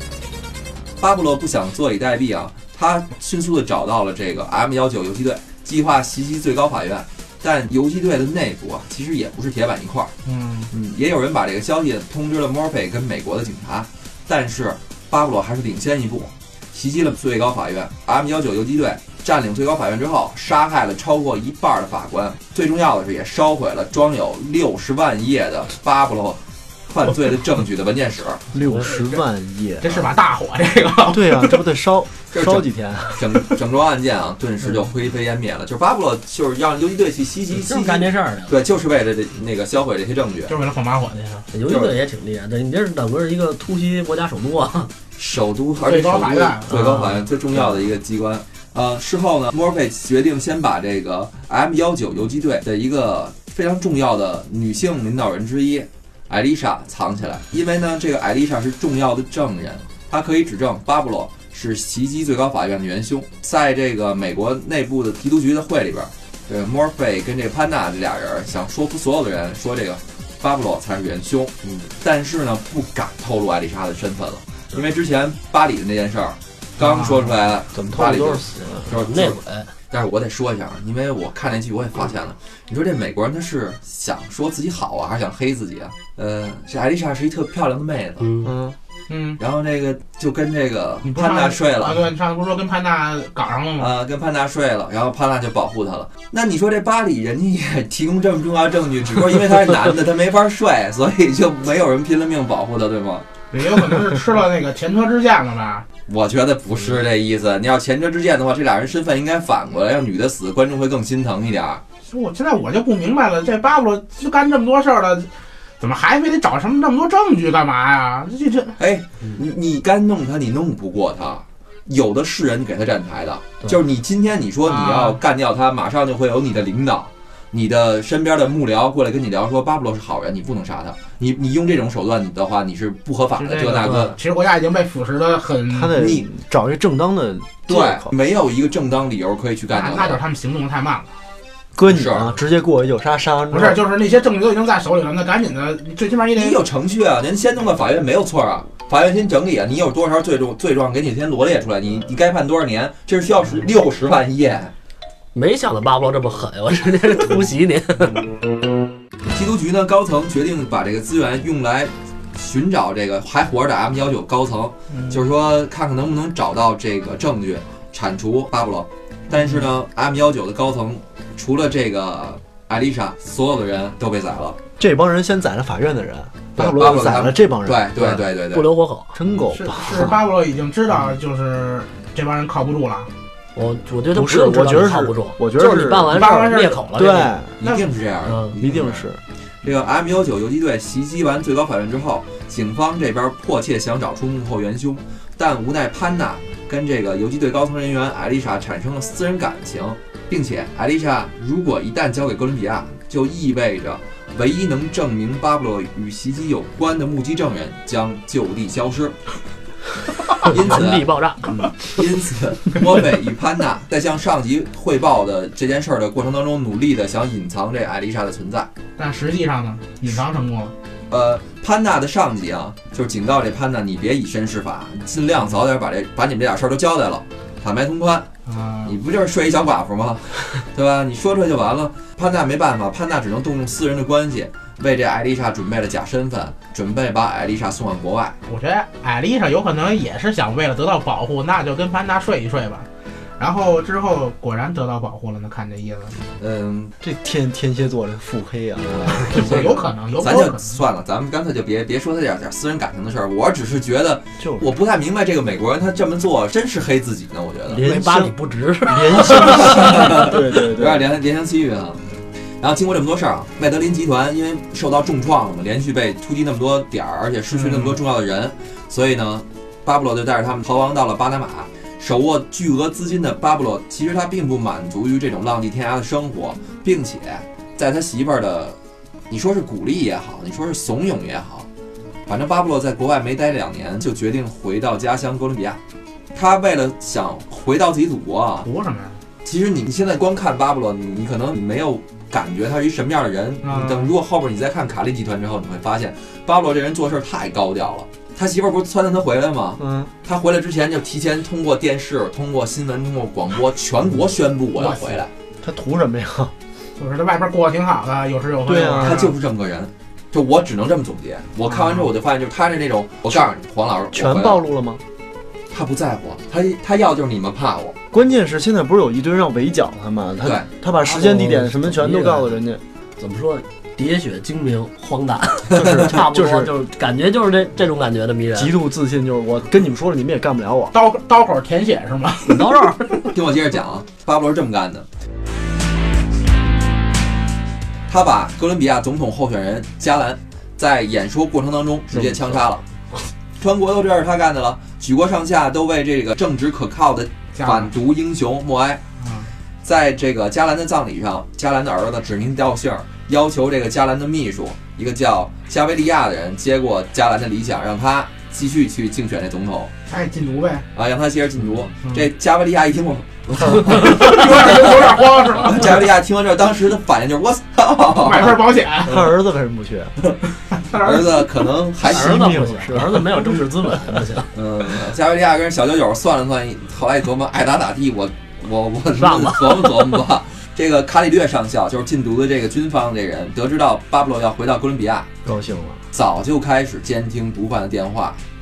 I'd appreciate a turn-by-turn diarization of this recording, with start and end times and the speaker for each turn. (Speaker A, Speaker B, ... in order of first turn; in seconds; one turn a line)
Speaker A: 1.0-10.1
Speaker B: 10.2-10.7
Speaker A: 10.7-28.4
Speaker C: 28.5-29.9
Speaker D: 28.6-28.9
Speaker B: 28.8-29.2
Speaker B: 29.8-31.6
Speaker C: 31.1-33.5
Speaker A: 32.3-40.5
Speaker D: 37.5-38.5
Speaker B: 40.5-41.5
Speaker D: 41.5-44.9
Speaker A: 41.6-41.9
Speaker A: 45.2-88.3
Speaker B: 45.9-47.1
Speaker D: 46.7-47.1
Speaker B: 76.8-77.3
Speaker C: 77.7-78.9
Speaker D: 78.9-79.7
Speaker D: 88.2-88.5
Speaker C: 88.4-88.8
Speaker B: 89.1-89.4
Speaker A: 89.4-92.1
Speaker B: 91.0-93.9
Speaker A: 93.8-103.3
Speaker B: 103.5-105.9
Speaker A: 106.1-111.8
Speaker B: 112.0-118.8
Speaker A: 118.8-134.2
Speaker B: 124.7-125.2
Speaker B: 133.3-136.0
Speaker D: 133.8-134.1
Speaker C: 135.7-138.1
Speaker A: 135.9-136.3
Speaker A: 137.7-140.2
Speaker B: 139.7-141.1
Speaker C: 141.8-143.8
Speaker A: 141.9-142.3
Speaker B: 143.5-146.6
Speaker A: 146.4-154.7
Speaker D: 155.3-158.2
Speaker A: 159.3-174.6
Speaker B: 164.9-165.2
Speaker B: 169.3-169.7
Speaker C: 174.8-177.9
Speaker A: 176.6-178.7
Speaker D: 178.0-179.2
Speaker C: 179.1-180.3
Speaker B: 179.5-183.1
Speaker D: 183.6-187.3
Speaker C: 184.1-187.6
Speaker B: 186.1-187.9
Speaker A: 187.6-189.1
Speaker D: 188.2-188.5
Speaker C: 188.6-189.2
Speaker A: 189.6-209.2
Speaker D: 210.4-211.6
Speaker A: 210.4-218.7
Speaker B: 219.0-220.7
Speaker A: 221.1-228.3
Speaker B: 228.5-229.0
Speaker A: 228.8-238.4
Speaker B: 238.5-246.2
Speaker A: 246.4-246.9
Speaker C: 247.0-249.9
Speaker B: 249.3-250.8
Speaker A: 249.4-257.8
Speaker C: 254.4-254.7
Speaker C: 257.7-261.1
Speaker D: 257.8-260.4
Speaker A: 259.3-262.0
Speaker A: 262.6-278.8
Speaker A: 279.3-281.7
Speaker A: 282.3-285.8
Speaker A: 286.3-288.7
Speaker B: 288.6-289.2
Speaker A: 289.4-305.3
Speaker B: 293.6-294.1
Speaker C: 299.8-300.1
Speaker B: 304.8-305.2
Speaker C: 305.6-306.5
Speaker B: 307.0-309.3
Speaker C: 308.6-309.3
Speaker A: 309.0-314.6
Speaker B: 311.6-312.1
Speaker C: 314.1-315.0
Speaker A: 315.7-318.0
Speaker C: 318.1-322.8
Speaker D: 321.0-322.6
Speaker D: 323.2-328.7
Speaker C: 325.7-326.7
Speaker C: 328.5-330.9
Speaker B: 330.9-333.0
Speaker D: 332.4-333.2
Speaker A: 333.3-335.1
Speaker A: 338.1-342.9
Speaker C: 342.1-342.6
Speaker A: 343.6-349.0
Speaker B: 347.6-347.9
Speaker B: 349.2-349.5
Speaker A: 349.8-359.9
Speaker B: 360.1-360.9
Speaker A: 360.9-368.6
Speaker B: 363.9-366.1
Speaker B: 368.1-369.3
Speaker C: 368.4-370.2
Speaker B: 370.7-371.5
Speaker A: 370.9-372.5
Speaker C: 372.0-374.4
Speaker D: 372.0-374.5
Speaker A: 374.5-385.3
Speaker D: 379.2-380.2
Speaker C: 385.4-386.1
Speaker A: 386.1-388.4